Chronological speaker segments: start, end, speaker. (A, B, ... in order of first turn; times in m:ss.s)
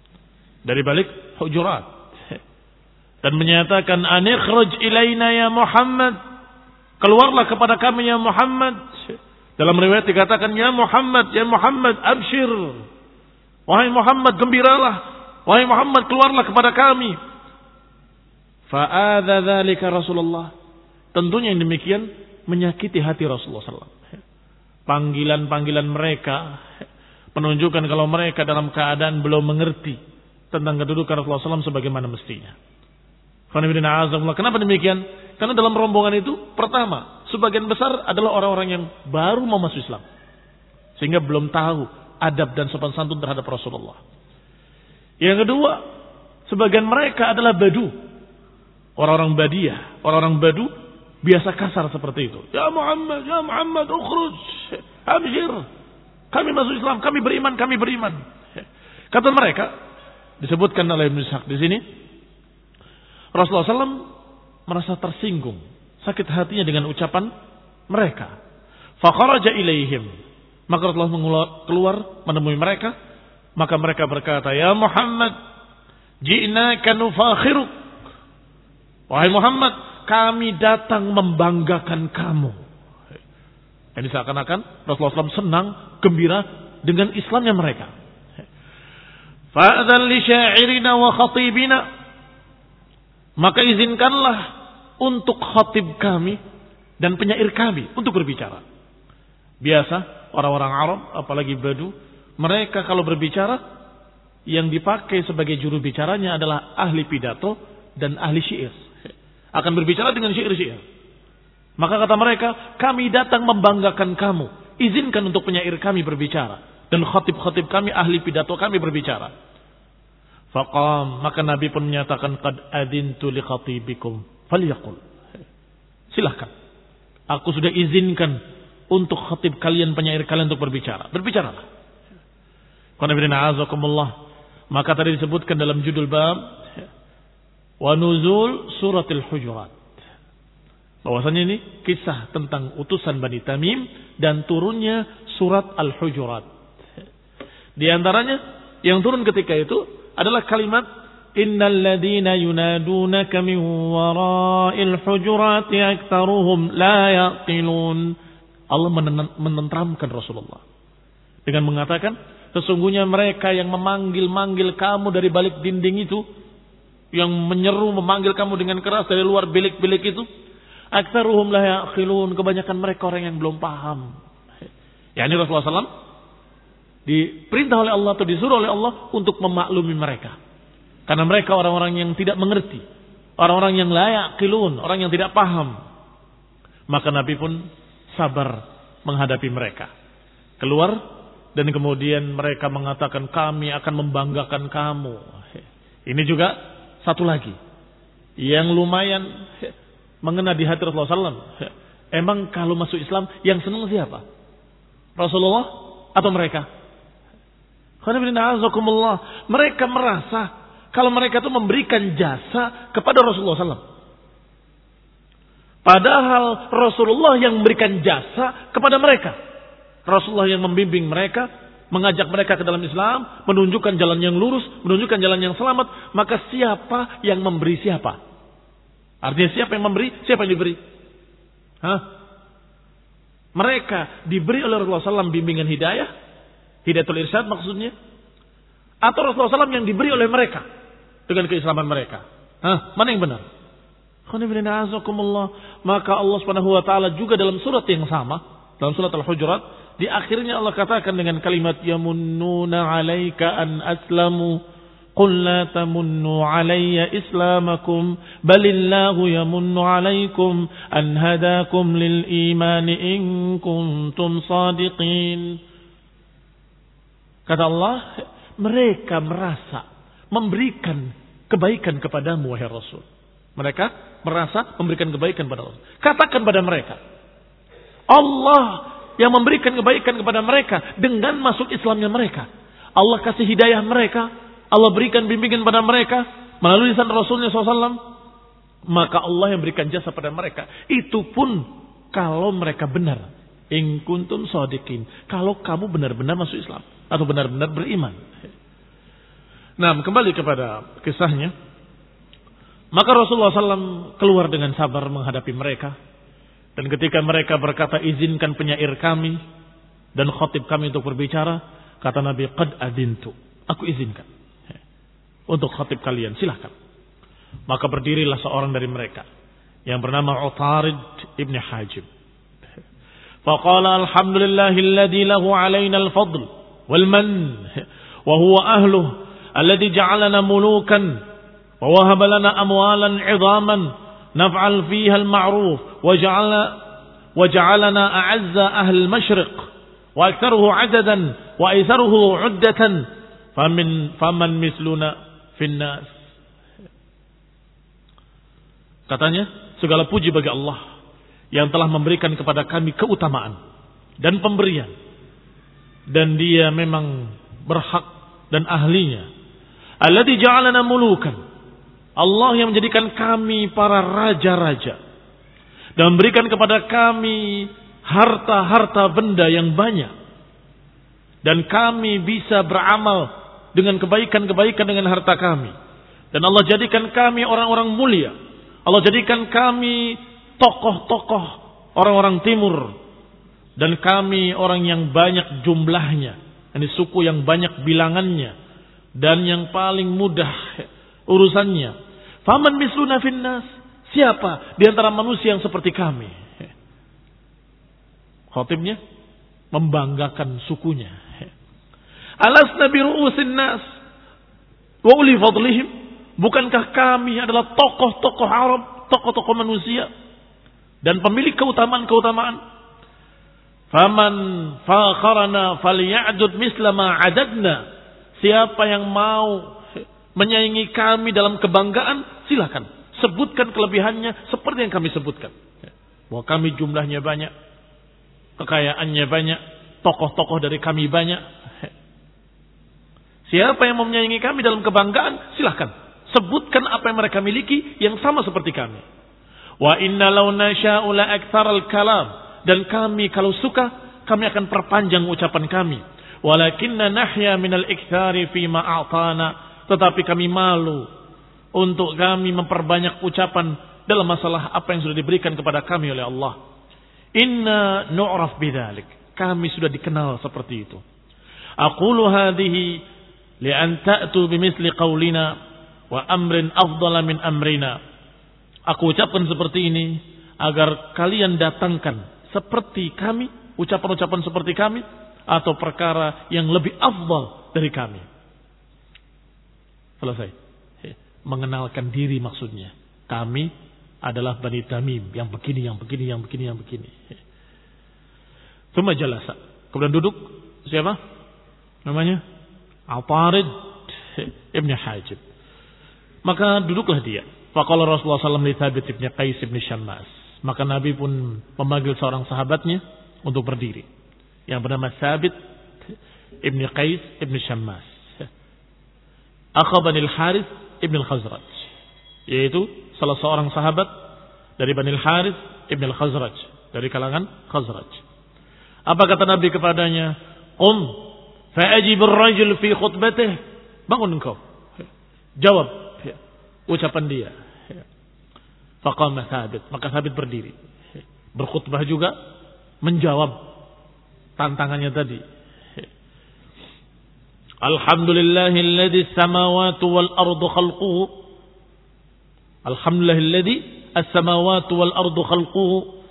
0:00.6-0:01.9 A
0:03.2-0:06.2 A
0:07.0-0:09.0 A
0:09.6-0:12.8 A
0:13.7-0:17.2 A
0:18.7-0:20.5 A
0:21.1-0:24.0 A
0:24.9-0:26.6 A
0:27.3-0:30.0 A
0:30.5-0:32.6 A
0:33.5-0:40.0 A
0:41.0-0:44.0 A
0:45.2-0:45.8 A
0:46.5-0:47.9 A
0:49.0-0:50.7 A
0:51.2-0:55.6 A
0:56.3-0:58.2 A
0:59.1-0:59.7 A
1:00.4-1:01.8 A
1:03.3-1:04.0 A
1:04.7-1:07.3 A
1:07.9-1:08.3 A
1:09.0-1:10.1 A
1:10.7-1:12.9 A
1:13.6-1:15.3 A
1:16.2-1:17.7 A
1:19.1-1:22.6 A
1:24.0-1:27.9 A
1:29.5-1:31.8 A
1:33.4-1:34.4 A
1:35.0-1:36.4 A
1:37.0-1:38.6 A
1:39.6-1:43.6 A
1:44.5-1:48.8 A
1:49.6-1:50.8 A
1:51.8-1:59.3 A
2:00.5-2:05.0 A
2:06.1-2:06.5 A
2:07.3-2:08.4 A
2:08.9-2:11.6 A
2:13.0-2:14.1 A
2:14.7-2:16.4 A
2:17.8-2:19.7 A
2:21.0-2:26.5 A
2:27.8-2:38.1 A
2:38.7-2:40.6 A
2:41.4-2:46.2 A
2:47.1-2:50.2 A
2:50.9-2:54.1 A
2:55.2-2:55.9 A
2:57.1-3:00.4 A
3:01.1-3:02.8 A
3:03.4-3:05.8 A
3:06.9-3:07.6 A
3:08.1-3:09.9 A
3:10.6-3:11.0 A
3:11.6-3:15.4 A
3:16.1-3:17.6 A
3:18.4-3:19.7 A
3:20.2-3:24.2 A
3:25.2-3:26.7 A
3:28.0-3:33.8 A
3:35.8-3:39.4 A
3:40.1-3:48.2 A
3:49.2-3:50.8 A
3:53.6-3:56.1 A
3:56.8-3:57.9 A
3:59.0-4:00.6 A
4:01.3-4:03.4 A
4:04.3-4:14.6 A
4:15.2-4:25.6 A
4:27.5-4:33.1 A
4:33.6-4:37.0 A
4:38.1-4:48.0 A
4:48.9-4:58.2 A
4:59.8-5:01.5 A
5:02.9-5:05.9 A
5:06.8-5:09.4 A
5:10.1-5:14.3 A
5:15.5-5:16.7 A
5:17.7-5:19.2 A
5:19.9-5:22.1 A
5:23.4-5:31.2 A
5:31.8-5:36.8 A
5:37.4-5:46.1 A
5:49.1-5:50.8 A
5:51.5-5:53.6 A
5:54.2-5:54.9 A
5:56.1-5:59.3 A
6:00.0-6:01.4 A
6:02.2-6:05.0 A
6:06.0-6:10.1 A
6:11.4-6:15.7 A
6:16.3-6:18.3 A
6:18.9-6:22.9 A
6:23.8-6:28.5 A
6:29.2-6:36.4 A
6:38.5-6:39.0 A
6:39.7-6:41.2 A
6:42.4-6:43.8 A
6:45.0-6:50.1 A
6:51.0-6:52.6 A
6:53.9-6:57.8 A
6:58.4-6:59.7 A
7:00.4-7:05.6 A
7:06.3-7:07.5 A
7:08.6-7:11.4 A
7:13.5-7:19.0 A
7:19.8-7:31.1 A
7:31.8-7:36.6 A
7:37.4-7:41.0 A
7:41.8-7:43.0 A
7:43.6-7:45.5 A
7:46.1-7:48.0 A
7:48.9-7:58.2 A
8:00.2-8:03.7 A
8:04.2-8:07.1 A
8:08.9-8:11.2 A
8:12.1-8:12.4 A
8:13.1-8:15.4 A
8:16.4-8:24.1 A
8:24.7-8:25.6 A
8:26.6-8:28.5 A
8:29.8-8:31.9 A
8:32.5-8:34.1 A
8:34.8-8:38.2 A
8:39.1-8:41.2 A
8:41.7-8:44.6 A
8:45.6-8:47.5 A
8:49.0-8:50.7 A
8:51.6-8:52.3 A
8:53.0-8:53.6 A
8:54.6-8:55.4 A
8:57.8-9:01.3 A
9:02.8-9:06.1 A